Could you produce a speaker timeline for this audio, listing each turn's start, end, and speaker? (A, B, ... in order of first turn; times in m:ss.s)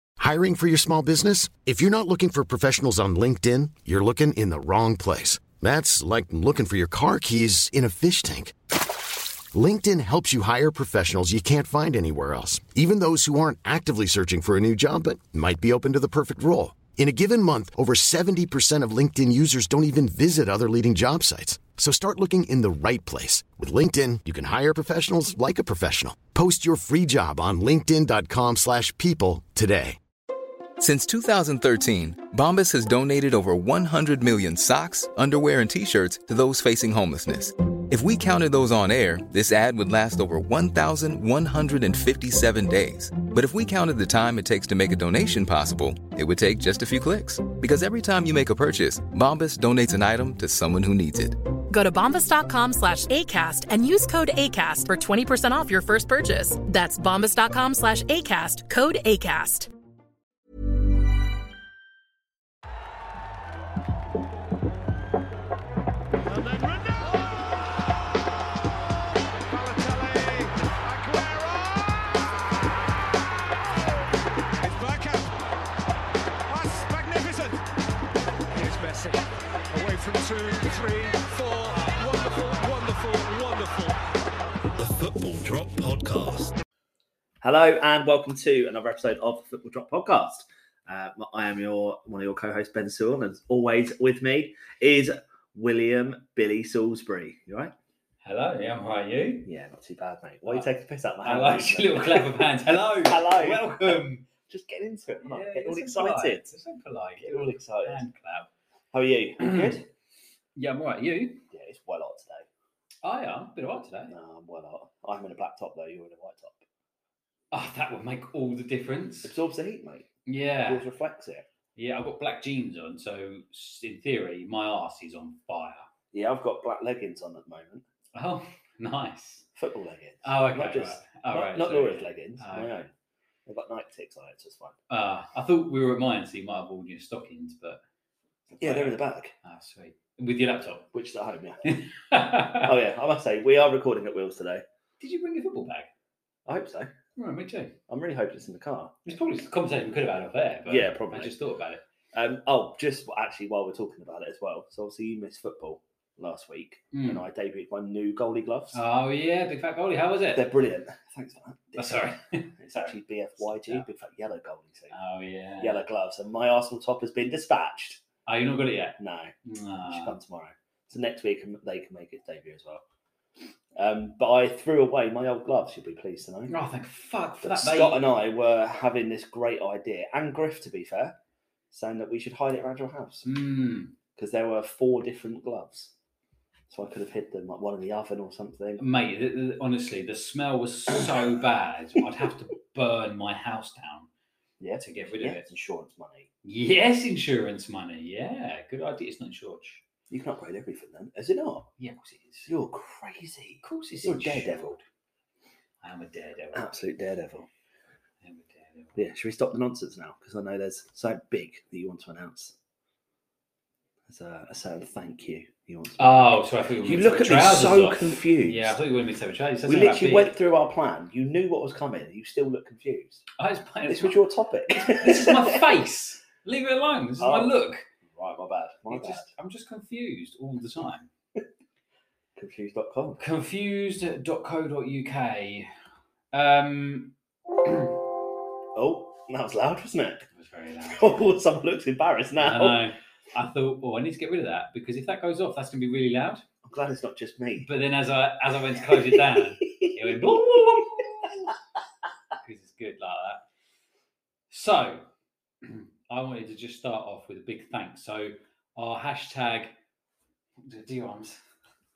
0:00.2-0:08.6 A
0:09.5-0:30.0 A
0:30.8-0:51.4 B
0:51.7-0:59.7 C
1:06.3-1:07.7 D
1:09.5-1:12.2 D
1:14.6-1:15.4 D
1:16.5-1:17.6 D
1:18.5-1:24.0 D
1:24.8-1:26.5 D
1:27.4-1:37.7 E
1:38.2-1:39.5 F
1:39.4-1:43.8 E
1:40.4-1:40.7 F
1:41.2-1:44.3 F
1:44.4-1:46.4 E
1:45.2-1:48.5 F
1:47.2-1:48.0 E
1:48.9-1:49.8 E
1:49.4-1:49.7 F
1:50.6-1:51.4 F
1:51.5-1:52.4 E
1:53.0-1:54.1 F
1:54.1-1:56.6 E
1:57.5-1:59.3 F
1:59.2-2:00.1 E
2:00.2-2:00.8 F
2:00.6-2:01.5 E
2:01.8-2:05.9 F
2:06.1-2:07.8 E
2:08.1-2:09.4 F
2:09.5-2:12.9 E
2:10.2-2:12.7 F
2:13.5-2:14.7 E
2:14.9-2:17.8 F
2:18.6-2:19.3 E
2:18.6-2:20.9 F
2:20.9-2:21.6 E
2:21.7-2:22.7 F
2:22.6-2:24.6 E
2:25.0-2:25.9 F
2:26.4-2:26.9 E
2:27.2-2:27.8 F
2:27.9-2:29.0 E
2:29.0-2:31.8 F
2:30.7-2:31.3 E
2:32.1-2:38.8 E
2:36.9-2:37.2 F
2:38.7-2:40.4 F
2:40.3-2:44.9 E
2:41.8-2:43.8 F
2:44.9-2:45.8 F
2:45.6-2:48.0 E
2:48.3-2:50.1 F
2:49.0-2:49.3 E
2:49.9-2:52.8 E
2:53.8-2:56.5 E
2:56.5-2:58.0 F
2:57.4-3:01.2 E
3:01.7-3:03.2 E
3:03.2-3:03.9 F
3:04.2-3:05.9 E
3:06.7-3:08.8 E
3:08.8-3:14.1 F
3:14.6-3:16.3 E
3:14.8-3:15.5 F
3:16.4-3:19.8 F
3:20.1-3:21.7 E
3:21.8-3:22.5 F
3:22.5-3:24.8 E
3:23.6-3:24.8 F
3:25.8-3:26.7 F
3:26.5-3:27.5 E
3:28.2-3:29.0 F
3:29.0-3:32.5 E
3:34.1-3:38.8 E
3:36.0-3:40.3 F
3:39.6-3:43.2 E
3:43.4-3:47.8 F
3:43.9-3:45.7 E
3:47.2-3:47.5 E
3:48.1-3:49.3 E
3:48.9-3:51.1 F
3:52.4-3:53.2 E
3:53.2-3:55.7 F
3:56.3-3:57.1 F
3:57.6-3:57.9 F
3:58.7-4:00.2 E
4:00.3-4:01.3 F
4:00.9-4:02.8 E
4:02.4-4:06.4 F
4:06.6-4:07.7 E
4:07.6-4:11.5 F
4:08.8-4:10.9 E
4:12.4-4:13.4 F
4:14.5-4:15.1 F
4:15.6-4:19.7 F
4:20.6-4:21.4 F